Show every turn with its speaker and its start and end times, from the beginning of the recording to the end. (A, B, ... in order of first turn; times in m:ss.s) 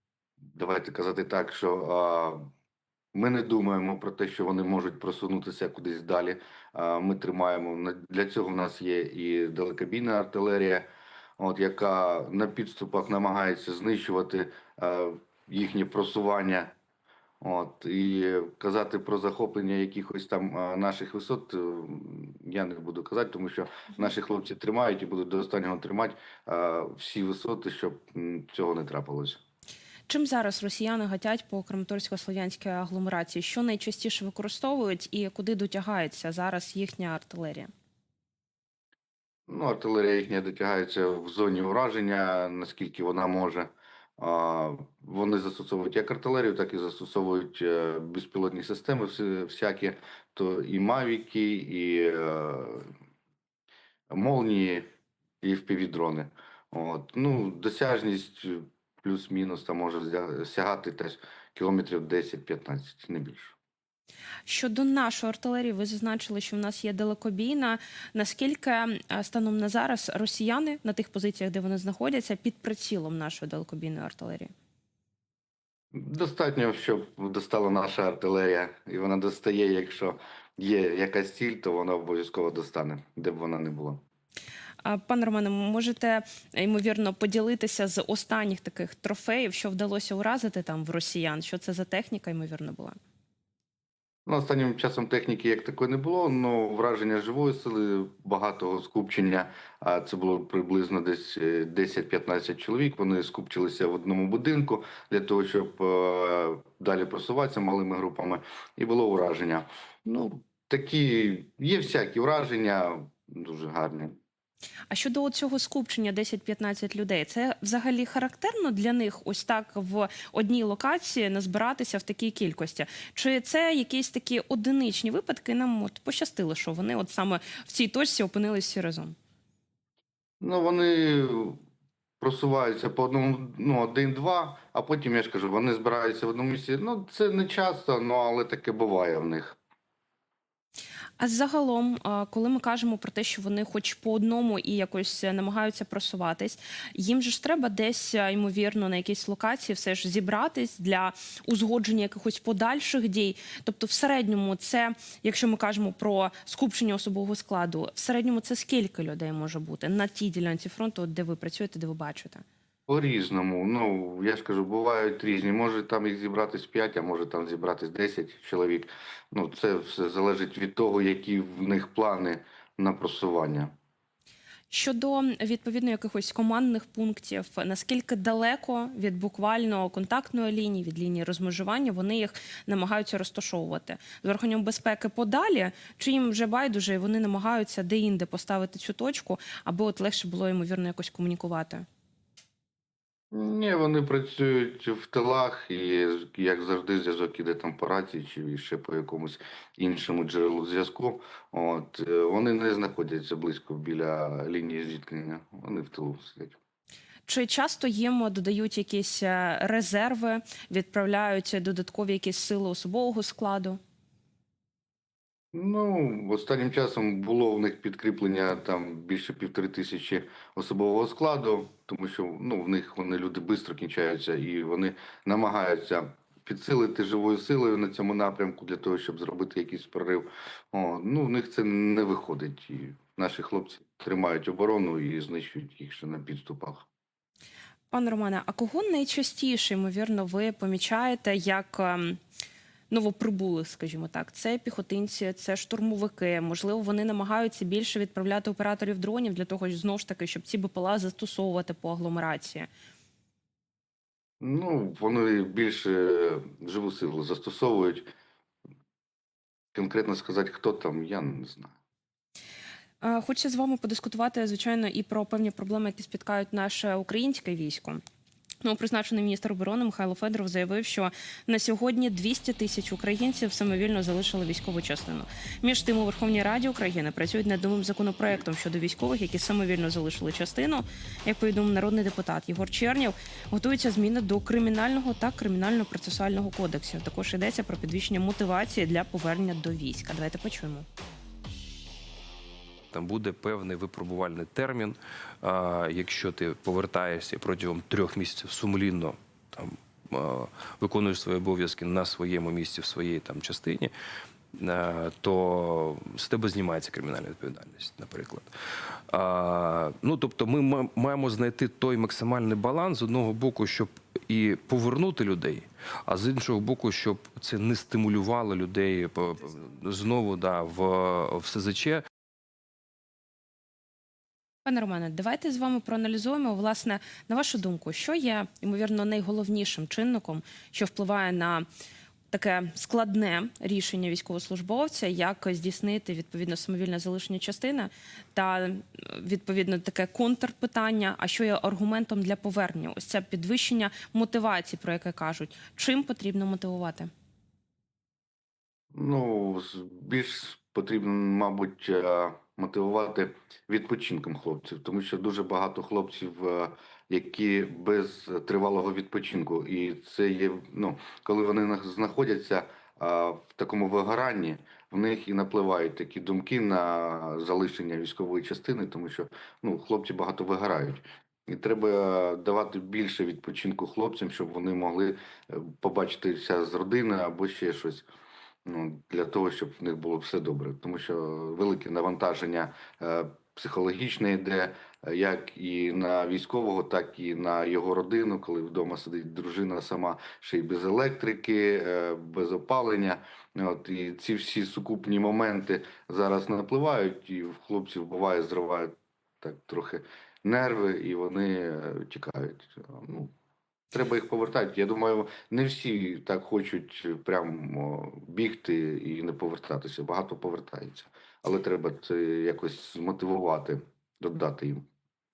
0:00.5-0:02.5 A
0:03.1-0:10.9 A
0:11.4-0:16.7 A
0:17.4-0:29.4 A
0:30.1-0:37.7 B
0:39.5-0:52.9 A
0:54.1-0:54.9 A
0:55.4-1:03.6 A
1:04.5-1:14.5 B
1:15.9-1:24.0 A
1:24.8-1:33.0 B
1:34.3-1:54.2 A
1:54.9-2:09.2 B
2:10.4-2:11.6 A
2:12.2-2:19.6 A
2:21.2-2:42.4 B
2:42.9-2:53.7 A
2:54.7-3:11.9 B
3:13.3-3:26.6 A
3:27.3-3:33.8 B
3:35.5-3:56.9 A
3:57.9-4:02.2 B
4:02.9-4:12.7 B
4:14.4-4:18.1 A
4:19.7-4:21.8 A
4:23.0-4:28.0 B
4:28.6-4:50.9 B
4:52.9-5:03.9 C
5:04.6-5:08.5 C
5:09.1-5:22.0 C
5:24.6-5:31.7 B
5:32.3-5:47.1 B
5:48.9-6:18.1 A
6:18.6-6:43.3 A
6:43.9-6:54.9 A